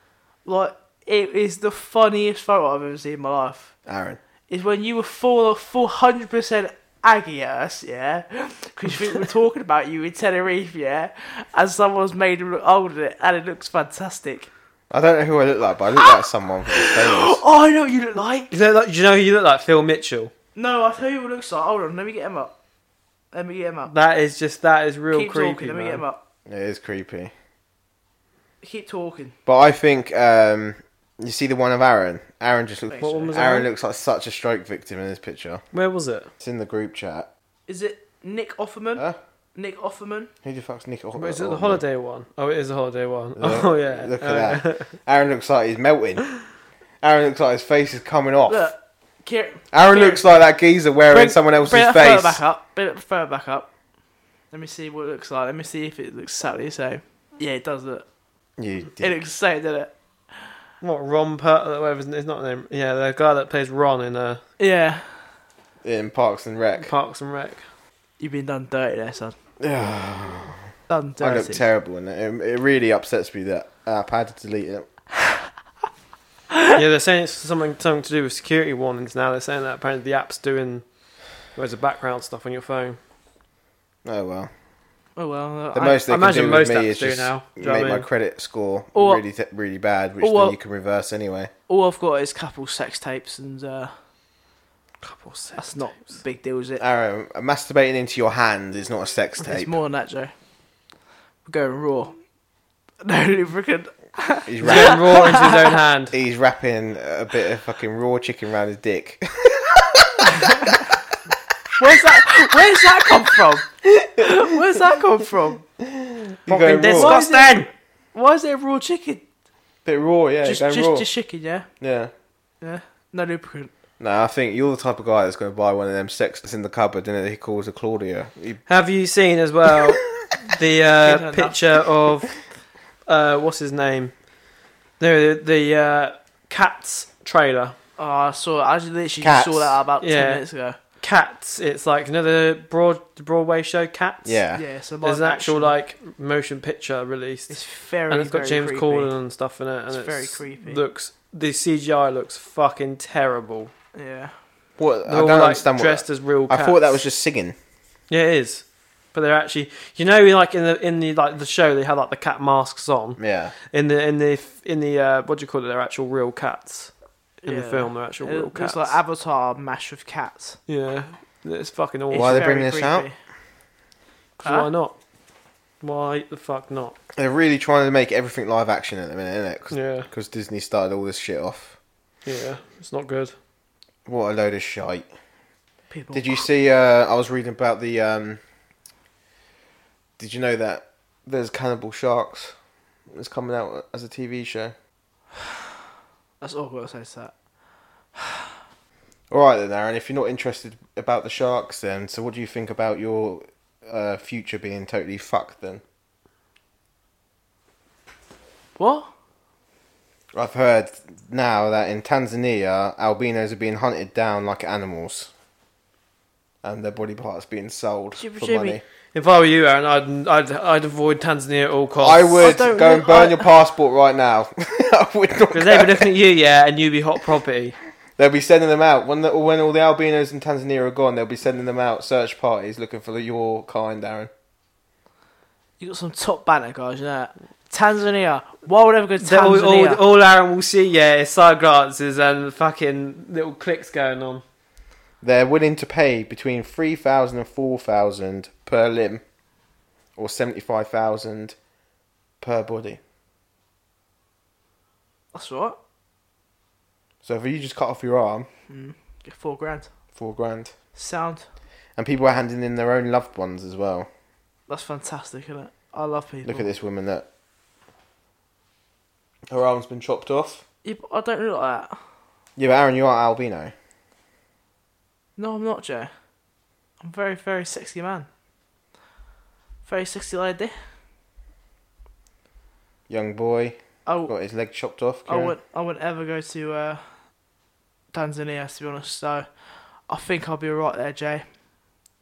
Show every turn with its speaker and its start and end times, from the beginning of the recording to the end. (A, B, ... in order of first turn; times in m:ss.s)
0:00.4-0:03.7 A
0:03.8-0:04.2 B
0:04.5-0:14.5 A
0:14.9-0:17.4 B
0:16.7-0:18.5 A
0:18.5-0:20.3 C
0:20.6-0:22.5 A
0:23.3-0:23.9 A
0:23.9-0:26.0 C
0:25.1-0:26.2 A
0:26.5-0:27.3 B
0:28.6-0:29.3 A
0:29.4-0:35.6 B
0:32.9-0:33.3 A
0:33.0-0:33.7 C
0:35.7-0:36.3 C
0:36.4-0:37.3 B
0:37.7-0:40.3 A
0:40.4-0:41.8 B
0:41.2-0:44.9 C
0:43.4-0:46.3 B
0:47.0-0:48.7 B
0:48.5-0:50.2 A
0:49.7-0:52.4 B
0:51.1-0:53.7 A
0:54.5-0:58.0 A
0:58.6-0:59.1 B
0:59.0-0:59.9 A
1:00.8-1:04.4 C
1:04.6-1:05.2 A
1:05.8-1:06.9 B
1:06.8-1:07.6 C
1:08.2-1:09.3 A
1:09.6-1:10.6 B
1:10.9-1:11.6 A
1:11.2-1:14.9 B
1:16.7-1:20.8 C
1:21.5-1:23.0 C
1:24.0-1:24.5 B
1:25.2-1:26.0 A
1:25.7-1:31.5 B
1:26.0-1:28.0 C
1:28.9-1:29.2 A
1:30.2-1:30.6 A
1:31.7-1:33.9 A
1:35.0-1:35.6 C
1:35.6-1:36.8 A
1:36.8-1:39.8 B
1:39.4-1:40.3 A
1:41.4-1:42.1 A
1:43.0-1:45.7 A
1:44.4-1:45.4 B
1:44.6-1:46.1 C
1:46.1-1:50.7 B
1:51.8-1:55.6 A
1:53.9-1:54.8 B
1:55.8-1:57.2 B
1:56.5-1:57.7 C
1:56.9-1:59.2 A
1:59.8-2:01.1 B
2:00.4-2:01.7 A
2:01.8-2:02.1 B
2:02.6-2:03.7 A
2:04.0-2:08.6 B
2:08.7-2:12.3 C
2:09.7-2:09.9 B
2:11.0-2:11.6 A
2:13.1-2:14.1 C
2:15.0-2:17.7 C
2:18.0-2:20.8 A
2:19.2-2:19.8 B
2:20.0-2:20.4 C
2:21.0-2:24.4 C
2:24.2-2:24.6 B
2:24.5-2:25.7 A
2:25.0-2:33.7 C
2:27.5-2:29.1 A
2:29.9-2:30.8 A
2:33.9-2:34.3 A
2:34.8-2:37.6 B
2:35.1-2:37.0 C
2:38.1-2:43.2 C
2:43.2-2:43.5 B
2:43.7-2:49.0 C
2:47.5-2:50.6 A
2:50.7-2:52.5 C
2:52.1-2:53.1 A
2:52.1-2:53.1 B
2:54.4-2:55.0 C
2:54.4-2:54.7 A
2:55.8-2:57.0 C
2:57.2-3:01.8 B
2:59.7-3:00.1 C
3:02.2-3:03.3 C
3:04.0-3:05.1 B
3:05.9-3:06.4 A
3:06.1-3:08.4 B
3:10.2-3:12.5 B
3:13.1-3:14.7 B
3:16.4-3:17.3 A
3:18.2-3:18.4 A
3:19.3-3:25.8 B
3:28.8-3:29.1 A
3:30.3-3:35.3 B
3:36.6-3:38.8 B
3:38.1-3:38.8 A
3:39.1-3:42.4 C
3:42.0-3:46.1 B
3:42.4-3:43.5 A
3:45.5-3:47.8 C
3:48.2-3:54.3 B
3:55.8-4:00.0 A
3:59.2-4:04.4 C
4:05.2-4:09.2 B
4:10.2-4:11.6 B
4:12.4-4:13.0 B
4:15.3-4:15.8 A
4:17.2-4:18.5 B
4:18.7-4:19.9 A
4:20.2-4:20.7 B
4:20.9-4:21.4 A
4:22.0-4:24.1 B
4:24.7-4:26.7 A
4:26.4-4:27.2 B
4:29.5-4:30.6 B
4:30.8-4:32.0 A
4:32.6-4:33.7 B
4:35.4-4:36.1 A
4:37.0-4:38.3 A
4:39.8-4:40.8 A
4:43.1-4:45.5 B
4:44.0-4:44.3 A
4:45.3-4:47.1 A
4:48.1-4:49.5 A
4:50.0-4:51.4 A